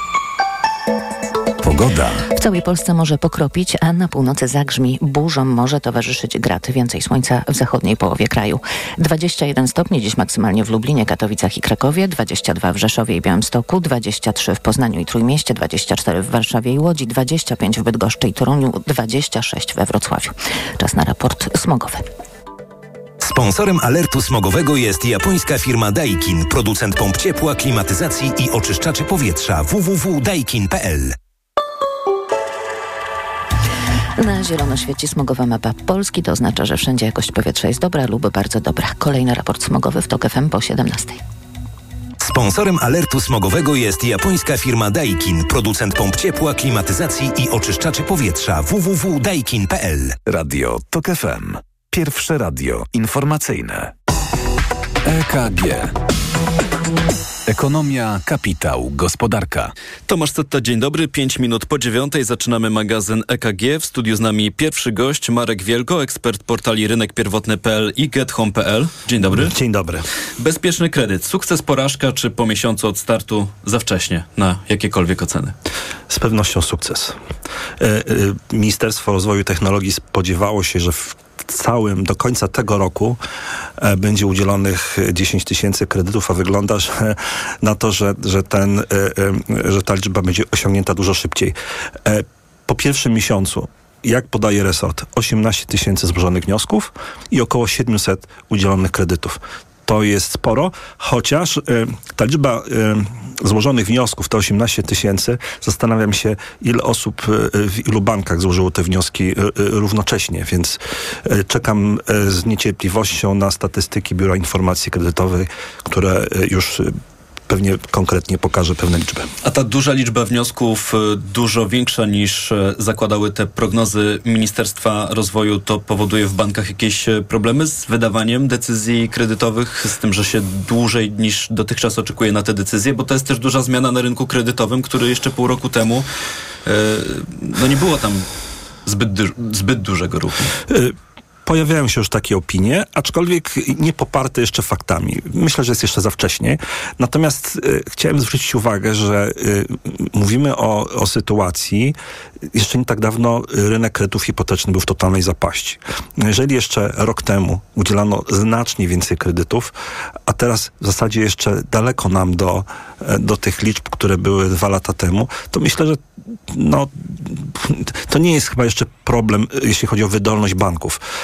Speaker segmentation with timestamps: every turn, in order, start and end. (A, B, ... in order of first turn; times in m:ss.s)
0:01.6-0:02.2 A
0:02.3-0:22.0 B
0:23.2-0:31.2 C
0:34.2-0:41.2 B
0:42.2-0:50.2 C
0:50.2-0:53.9 A
0:55.0-0:55.9 A
0:57.5-0:59.7 A
1:00.1-1:09.5 D
1:09.2-1:10.0 E
1:10.4-1:15.5 D
1:16.1-1:17.2 E
1:17.8-1:23.2 E
1:23.8-1:57.0 E
1:57.5-1:59.3 E
1:59.4-2:16.1 D
2:16.6-2:18.2 D
2:18.8-2:20.5 D
2:20.7-2:32.0 E
2:32.5-2:39.7 E
2:40.2-2:51.0 E